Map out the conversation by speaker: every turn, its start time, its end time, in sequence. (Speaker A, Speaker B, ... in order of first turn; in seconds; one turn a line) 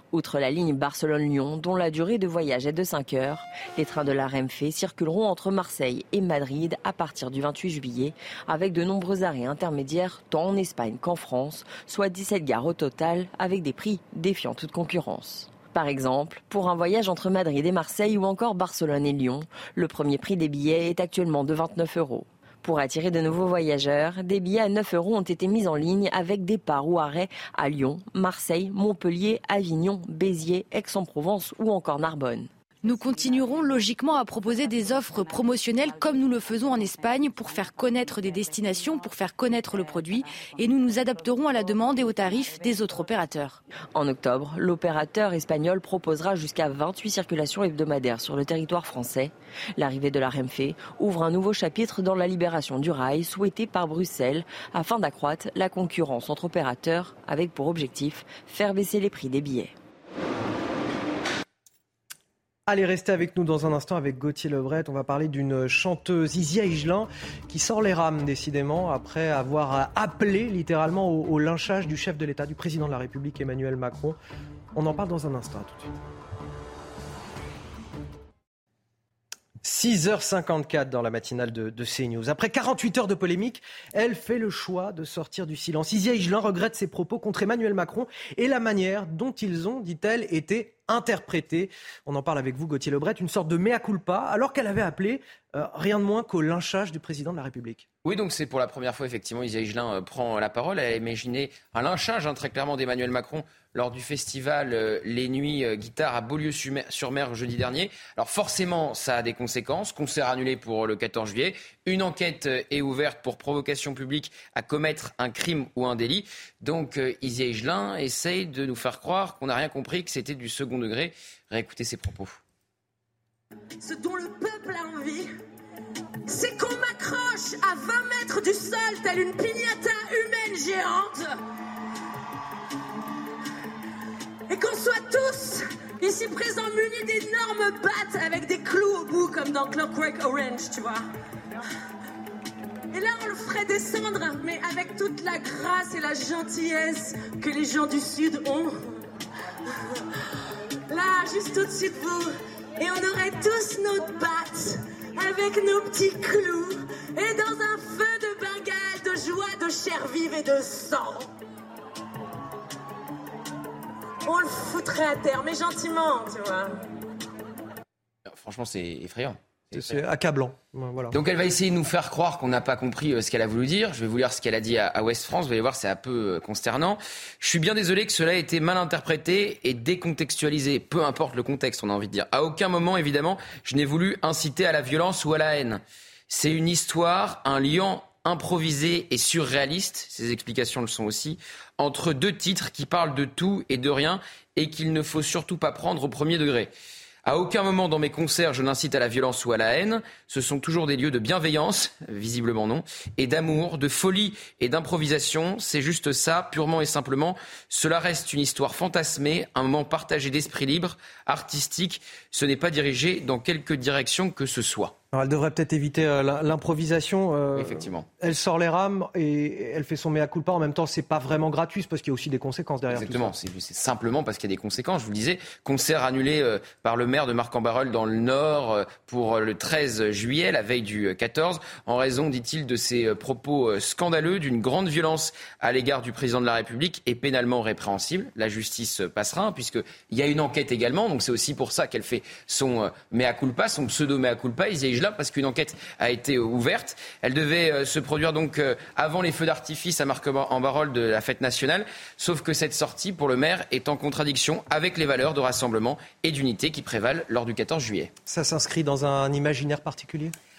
Speaker A: 0.1-32.5
Speaker B: 32.8-43.6
Speaker A: 43.9-59.7
Speaker C: 62.7-74.2
Speaker C: 74.8-75.9
Speaker C: 79.6-97.9
Speaker D: 98.0-122.4
Speaker E: 123.8-125.3
Speaker E: 126.3-131.3
Speaker E: 134.5-141.0
Speaker E: 142.9-148.9
Speaker E: 150.9-161.2
Speaker E: 164.3-166.8
Speaker D: 168.3-170.0
Speaker C: 169.7-171.2
Speaker D: 171.1-196.7
Speaker D: 197.2-214.9
Speaker C: 215.1-223.3
Speaker D: 217.6-218.1
Speaker D: 222.9-258.1
Speaker C: 258.3-260.3